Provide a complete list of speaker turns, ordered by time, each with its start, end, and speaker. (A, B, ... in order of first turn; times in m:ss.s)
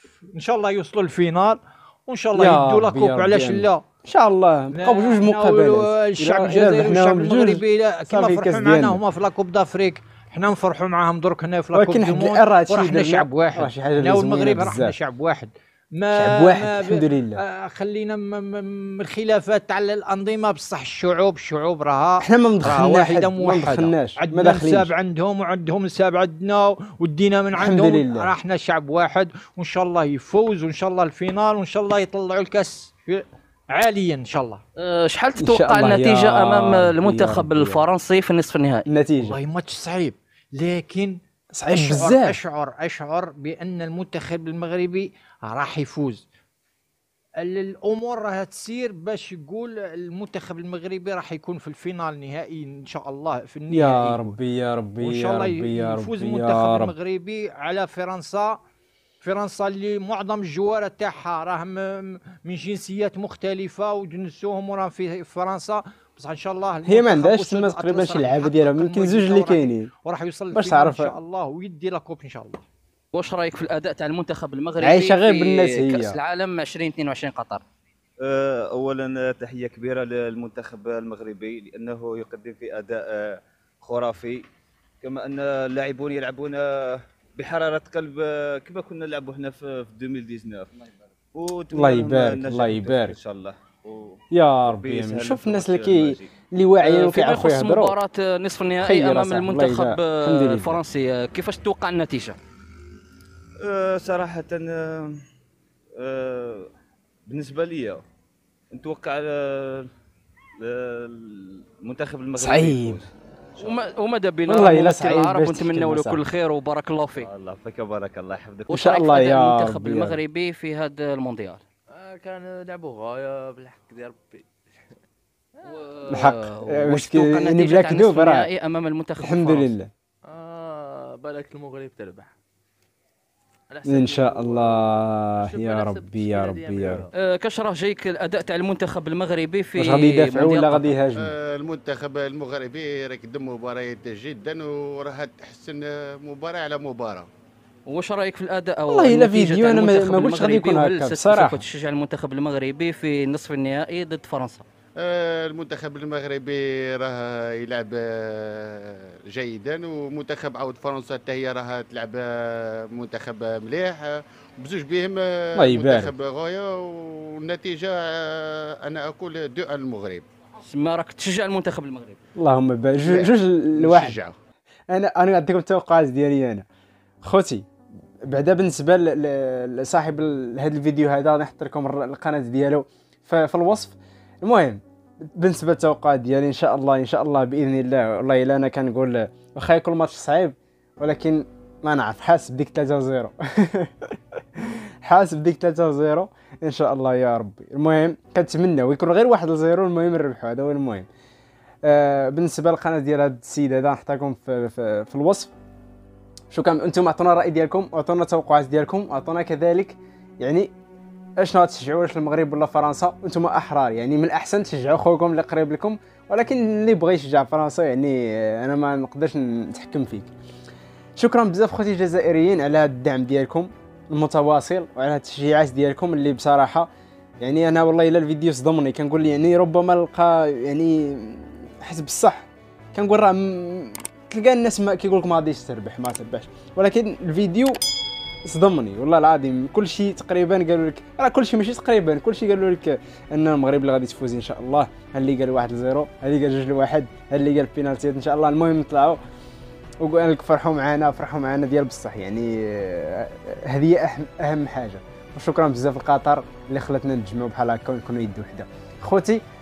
0:00.3-0:03.8 A
0:02.4-0:09.0 B
0:04.7-0:34.6 A
0:11.7-0:15.0 B
0:16.1-0:17.4 B
0:22.2-0:24.9 B
0:27.6-0:28.3 B
0:34.8-0:38.9 C
0:35.4-0:37.8 B
0:38.9-0:39.4 B
0:39.2-0:41.2 A
0:41.6-0:42.4 B
0:41.7-0:46.2 A
0:47.4-0:54.2 A
0:53.7-0:56.9 B
0:55.0-0:58.6 A
0:59.2-1:12.6 A
1:06.8-1:09.9 B
1:10.5-1:11.1 B
1:13.1-1:17.6 C
1:14.8-1:16.2 B
1:18.2-1:24.5 D
1:25.0-1:36.3 D
1:31.7-1:33.2 B
1:34.3-1:38.0 B
1:36.8-1:42.4 C
1:38.8-1:40.8 B
1:43.6-1:45.2 D
1:45.9-1:46.7 D
1:47.3-1:48.0 D
1:48.7-1:49.9 D
1:50.6-1:53.7 D
1:52.4-1:53.0 B
1:53.6-1:57.3 C
1:54.5-1:56.2 B
1:57.2-1:58.7 D
1:58.7-2:01.6 C
1:58.7-2:00.2 B
2:01.9-2:04.4 E
2:05.6-2:09.7 C
2:06.1-2:08.5 B
2:09.2-2:09.9 B
2:10.2-2:12.3 E
2:13.7-2:17.1 E
2:13.8-2:17.1 B
2:17.1-2:20.9 C
2:19.8-2:21.3 B
2:21.2-2:27.3 F
2:27.9-2:34.6 C
2:28.9-2:31.6 B
2:35.0-2:50.2 F
2:45.6-2:46.1 B
2:50.6-2:52.2 C
2:52.4-2:54.2 B
2:53.0-2:54.3 F
2:54.9-2:56.6 B
2:57.2-2:57.6 B
2:58.3-3:04.8 B
3:05.4-3:21.1 B
3:21.8-3:25.5 B
3:26.5-3:30.7 B
3:31.4-3:40.3 B
3:41.2-3:46.9 B
3:47.4-3:57.8 B
3:58.4-4:09.2 B
4:10.0-4:19.4 B